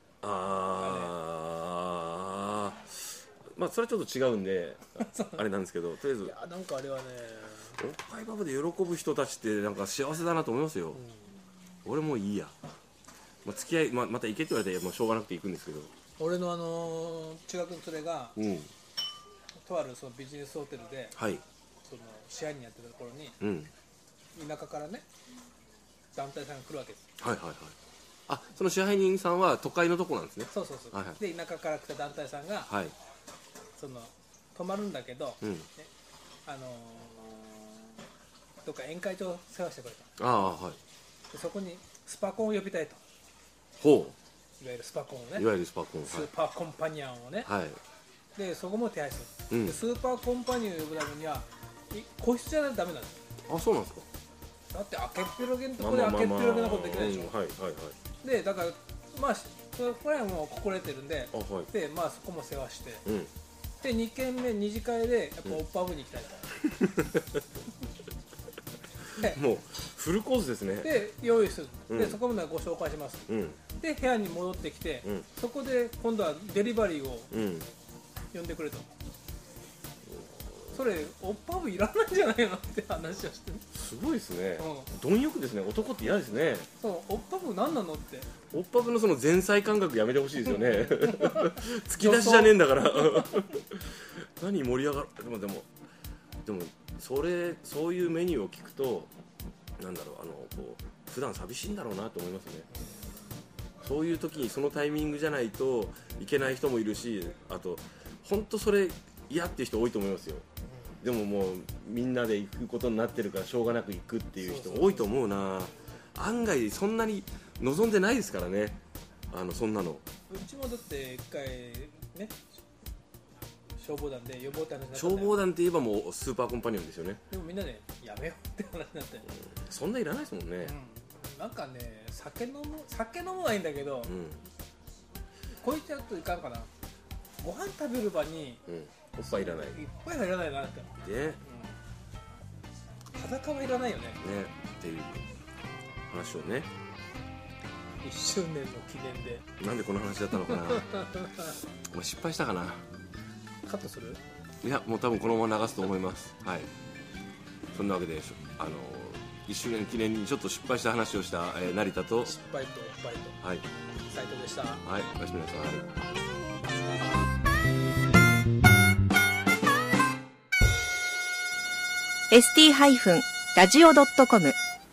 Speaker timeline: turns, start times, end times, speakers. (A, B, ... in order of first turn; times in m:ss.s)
0:00.2-0:06.4 A
0:00.8-0:01.1 B
0:05.0-0:05.4 B
0:06.2-0:07.8 B
0:07.8-0:11.0 A
0:11.0-0:11.3 B
0:11.8-0:12.5 A
0:13.4-0:15.9 A
0:16.2-0:18.4 B
0:18.4-0:18.7 A
0:19.6-0:21.2 B
0:21.2-0:21.4 A
0:21.8-0:23.4 B
0:23.4-0:23.7 A
0:24.4-0:25.0 B
0:26.1-0:27.1 B
0:27.2-0:27.8 A
0:28.3-0:31.2 A
0:30.5-0:32.7 B
0:32.7-0:33.0 A
0:33.8-0:35.9 B
0:35.4-0:35.7 A
0:36.5-0:38.0 B
0:38.6-0:40.1 B
0:40.2-0:40.8 A
0:41.3-0:43.0 B
0:43.8-0:44.2 A
0:44.6-0:45.5 B
0:45.4-0:46.3 A
0:46.0-0:47.5 B
0:47.4-0:47.8 A
0:48.4-0:53.2 B
0:49.5-0:49.8 A
0:53.5-0:54.1 A
0:54.7-0:57.3 B
0:55.8-0:58.0 A
0:58.2-1:03.0 B
1:01.3-1:01.7 A
1:03.1-1:03.3 A
1:03.8-1:06.4 B
1:06.8-1:07.2 A
1:09.2-1:11.0 A
1:10.8-1:17.3 B
1:11.9-1:12.2 A
1:13.3-1:13.6 A
1:17.3-1:17.7 A
1:18.3-1:18.9 B
1:20.2-1:20.7 A
1:20.7-1:23.6 B
1:23.7-1:26.7 A
1:24.6-1:24.9 B
1:26.8-1:28.3 B
1:28.5-1:35.7 A
1:31.0-1:33.2 B
1:36.4-1:39.1 A
1:39.8-1:42.7 A
1:43.8-1:50.4 A
1:51.0-1:58.8 A
1:54.4-1:55.1 B
1:59.3-2:00.0 A
2:00.3-2:02.4 B
2:03.8-2:05.4 B
2:04.9-2:07.2 A
2:07.3-2:09.3 B
2:09.5-2:10.7 A
2:10.6-2:14.1 B
2:14.1-2:14.4 A
2:15.6-2:16.7 B
2:17.4-2:18.6 B
2:18.7-2:19.8 A
2:19.3-2:21.7 B
2:21.0-2:21.4 A
2:23.1-2:24.2 B
2:24.2-2:25.2 A
2:26.1-2:26.7 A
2:28.0-2:29.5 B
2:29.6-2:31.2 A
2:30.5-2:31.3 B
2:31.9-2:32.8 A
2:33.6-2:34.2 B
2:34.6-2:36.7 A
2:37.7-2:42.4 A
2:42.2-2:43.4 B
2:44.1-2:44.8 B
2:44.8-2:45.9 A
2:52.3-2:54.6 C